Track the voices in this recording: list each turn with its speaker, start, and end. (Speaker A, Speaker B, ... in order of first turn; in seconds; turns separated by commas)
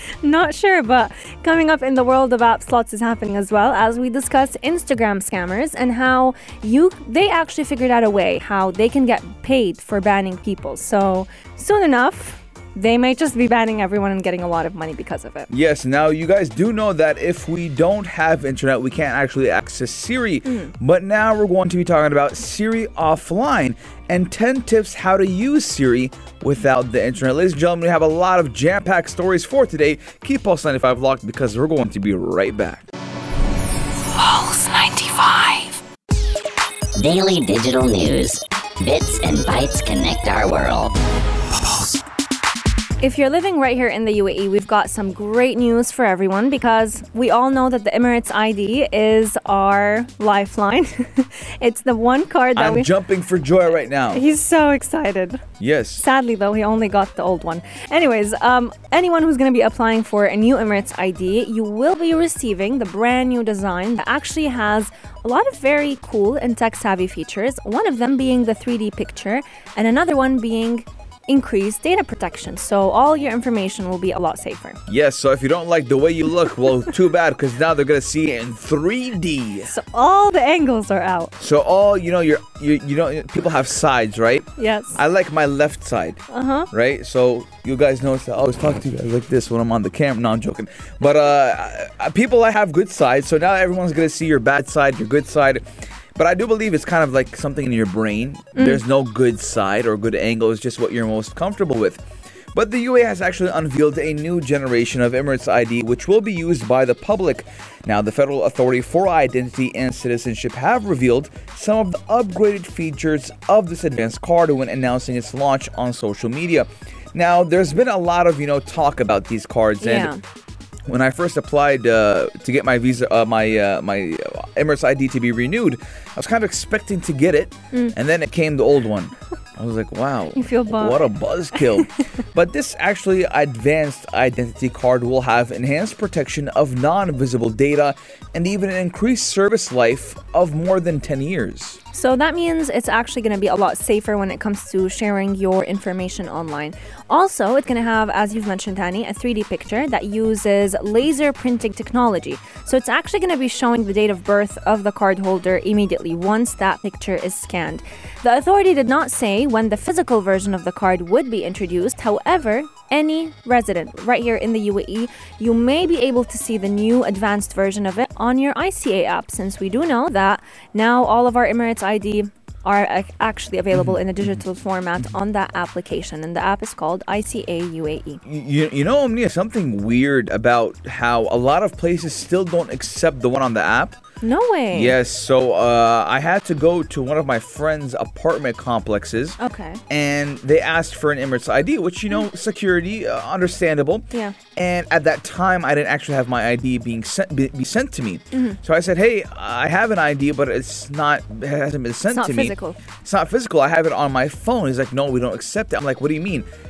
Speaker A: 0.2-15.5, Speaker B: 15.5-32.9, Speaker A: 20.5-20.7, Speaker A: 34.2-35.7, Speaker C: 37.0-40.9, Speaker A: 43.0-52.9, Speaker B: 52.5-54.2, Speaker A: 54.1-55.4, Speaker B: 55.6-56.0, Speaker A: 56.0-74.8, Speaker B: 74.9-79.8, Speaker A: 79.7-81.3, Speaker B: 81.4-120.1, Speaker A: 84.6-85.0, Speaker A: 86.3-86.7, Speaker A: 98.5-98.8, Speaker A: 119.8-120.2, Speaker B: 120.9-141.8, Speaker A: 130.3-131.9, Speaker A: 141.9-178.2, Speaker B: 173.7-174.4, Speaker B: 178.2-184.0, Speaker A: 184.2-185.0, Speaker B: 184.7-189.4, Speaker A: 189.4-189.8, Speaker B: 189.9-206.5, Speaker A: 198.3-198.6, Speaker A: 202.1-202.8